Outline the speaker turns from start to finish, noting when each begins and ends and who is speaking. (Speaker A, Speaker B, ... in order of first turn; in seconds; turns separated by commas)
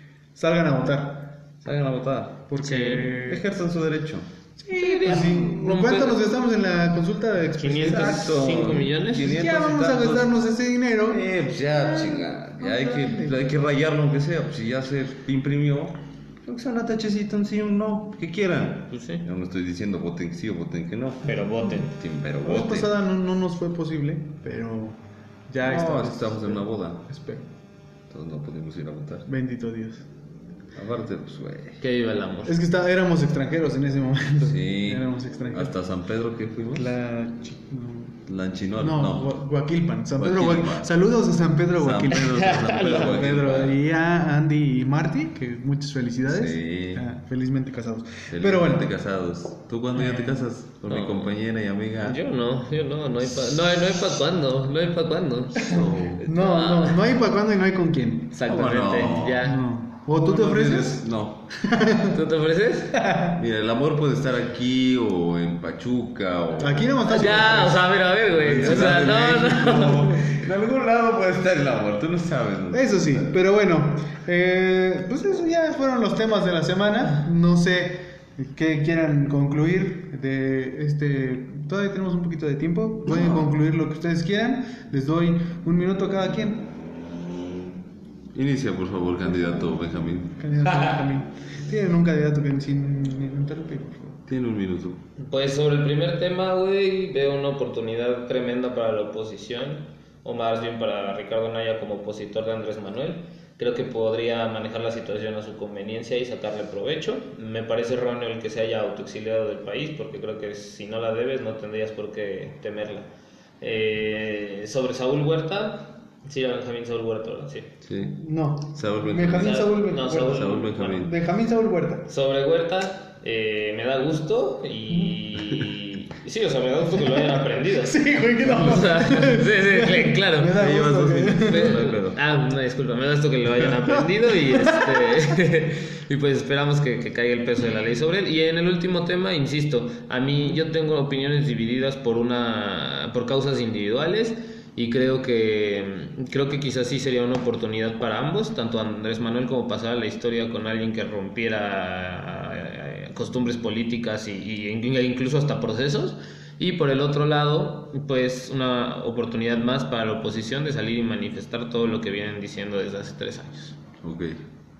Speaker A: 0.4-1.3, Speaker B: 1.6-2.5, Speaker A: 2.5-3.5, Speaker C: 2.6-3.2, Speaker B: 3.2-4.3, Speaker A: 4.6-8.3, Speaker C: 4.7-6.2, Speaker C: 7.6-9.3, Speaker B: 7.8-10.3, Speaker A: 9.1-13.4, Speaker B: 11.1-22.9, Speaker C: 18.9-19.2, Speaker C: 21.2-21.9, Speaker A: 22.4-27.5, Speaker B: 25.6-27.0, Speaker B: 28.1-29.3, Speaker A: 29.3-30.1, Speaker B: 30.7-31.8, Speaker C: 31.8-32.5, Speaker A: 32.5-35.7, Speaker B: 34.4-36.9, Speaker A: 36.7-38.2, Speaker B: 38.3-39.4, Speaker A: 38.8-48.9, Speaker B: 40.2-40.9, Speaker B: 41.8-43.8, Speaker C: 42.1-43.3, Speaker B: 46.3-47.0, Speaker B: 48.3-52.2, Speaker A: 49.9-50.5, Speaker C: 50.9-51.3, Speaker C: 52.0-57.0, Speaker B: 55.7-56.3, Speaker A: 56.2-58.4, Speaker C: 58.3-59.6, Speaker B: 58.5-59.5, Speaker A: 59.4-61.0, Speaker B: 60.1-61.5, Speaker A: 61.6-62.2, Speaker C: 62.1-63.0, Speaker A: 62.9-63.4, Speaker B: 63.3-67.6, Speaker A: 66.6-67.9, Speaker C: 67.1-70.3, Speaker B: 68.3-73.3, Speaker A: 68.6-69.8, Speaker A: 72.7-86.7, Speaker B: 83.1-83.5, Speaker B: 88.3-90.5, Speaker A: 89.2-94.2, Speaker B: 94.3-95.0, Speaker C: 95.2-113.1, Speaker C: 113.6-117.7, Speaker B: 117.8-118.2, Speaker A: 118.0-122.1, Speaker B: 118.7-121.1, Speaker C: 119.3-121.1, Speaker C: 122.1-130.5, Speaker A: 126.9-131.8, Speaker B: 130.6-132.2, Speaker C: 131.4-163.8, Speaker A: 134.5-135.1, Speaker B: 164.0-164.4